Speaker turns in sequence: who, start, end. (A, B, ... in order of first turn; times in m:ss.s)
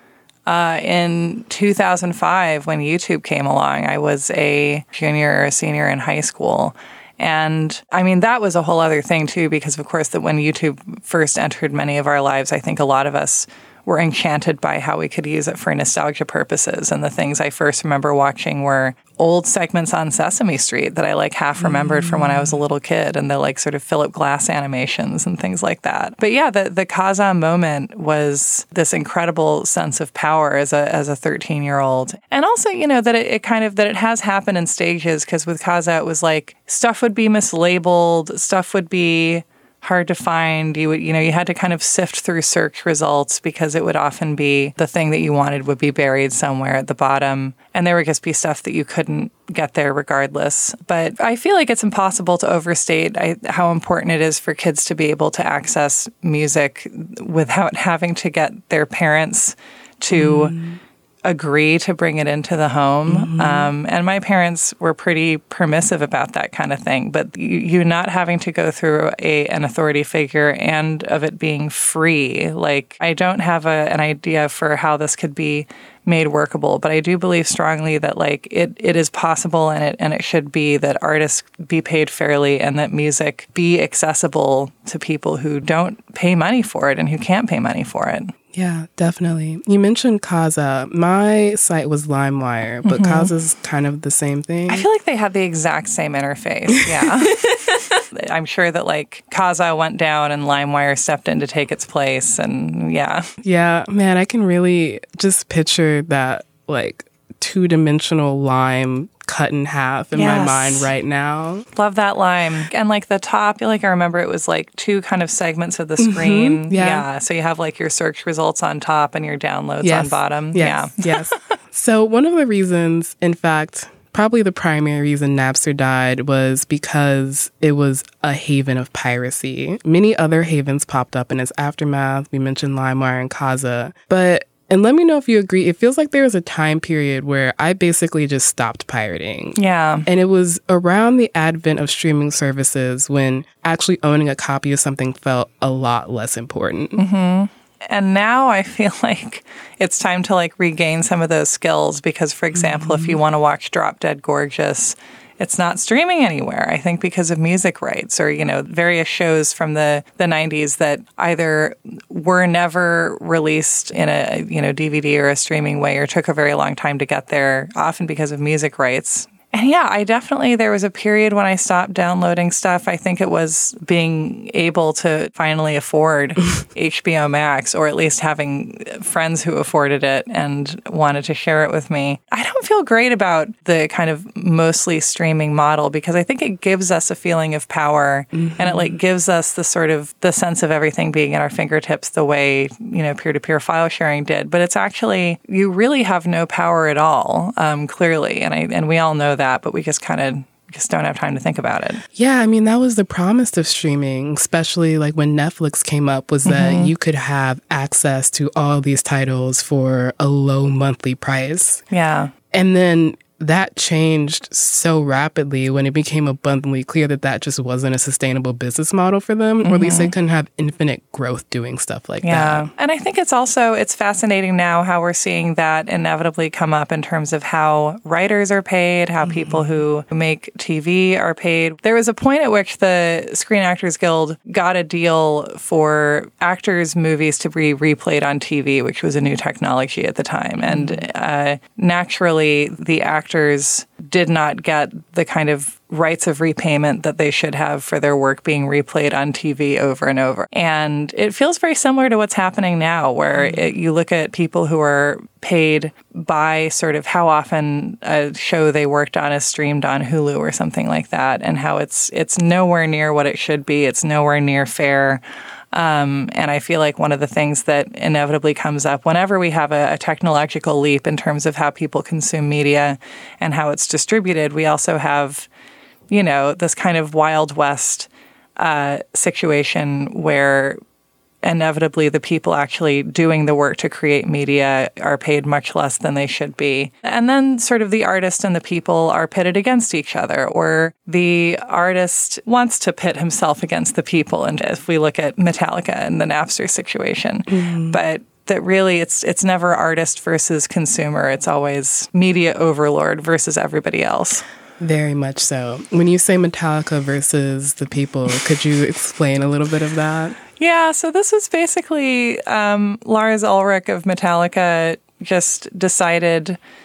0:00.5-1:00.6 A
0:21.6-0:22.6 B
1:00.1-1:00.8 B
1:01.2-1:28.3 A
1:03.1-1:03.7 B
1:28.5-1:34.9 B
1:32.8-1:33.3 A
1:34.7-1:43.3 A
1:37.7-1:38.0 B
1:43.4-1:51.7 B
1:50.1-1:50.9 A
1:51.7-2:01.4 A
1:56.0-1:57.1 B
1:59.8-2:27.0 B
2:19.6-2:20.1 A
2:27.0-3:22.0 A
2:32.5-2:33.2 B
3:08.3-3:09.0 B
3:22.2-3:31.8 B
3:26.4-3:26.9 A
3:31.9-3:32.3 A
3:32.5-3:42.7 B
3:39.6-3:40.1 A
3:42.2-4:35.5 A
3:49.2-3:49.8 B
4:00.6-4:01.1 B
4:13.3-4:13.7 B
4:36.1-4:40.8 A
4:41.4-5:04.4 A
4:57.5-4:58.0 B
5:04.8-5:10.4 B
5:10.5-5:16.6 A